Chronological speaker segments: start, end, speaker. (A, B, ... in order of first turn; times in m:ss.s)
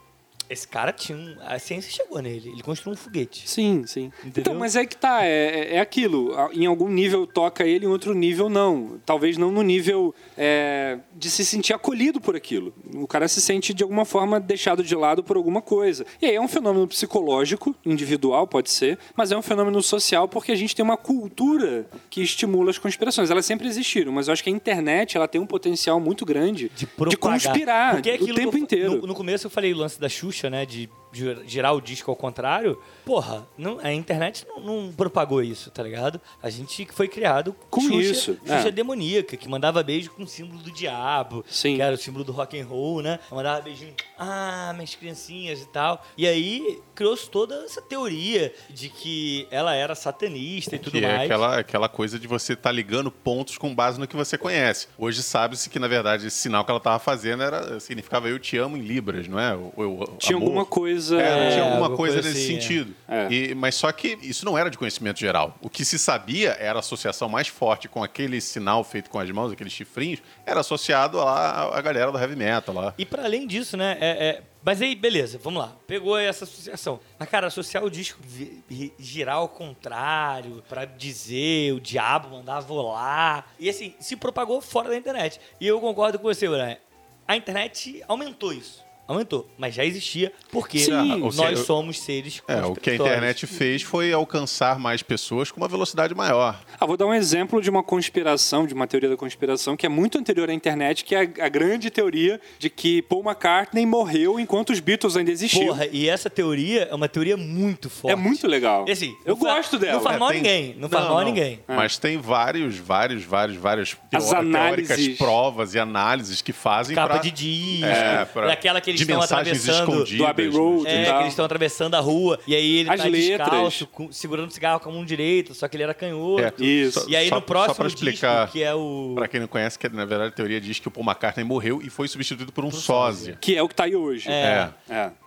0:00.5-0:03.5 A
0:03.5-0:29.0 B
0:04.2-0:04.7 A
0:26.7-0:51.4 A
0:37.7-0:38.7 B
0:41.5-0:41.8 B
0:50.9-1:13.0 C
1:00.2-1:01.8 B
1:01.2-1:02.8 A
1:03.1-1:03.3 B
1:13.0-1:33.4 A
1:30.8-1:31.6 B
1:30.8-1:31.7 C
1:32.5-1:36.6 C
1:36.8-1:45.8 B
1:45.5-1:51.6 A
1:48.1-1:50.2 B
1:49.9-2:01.2 C
1:54.1-1:55.3 B
1:56.9-2:00.1 A
1:57.8-1:58.2 B
2:00.1-2:01.4 B
2:00.8-2:09.3 A
2:02.9-2:03.8 B
2:06.4-2:08.5 C
2:06.6-2:07.1 B
2:09.1-2:13.4 C
2:12.7-2:13.4 A
2:13.4-2:15.1 B
2:14.2-2:14.7 A
2:14.4-2:14.8 C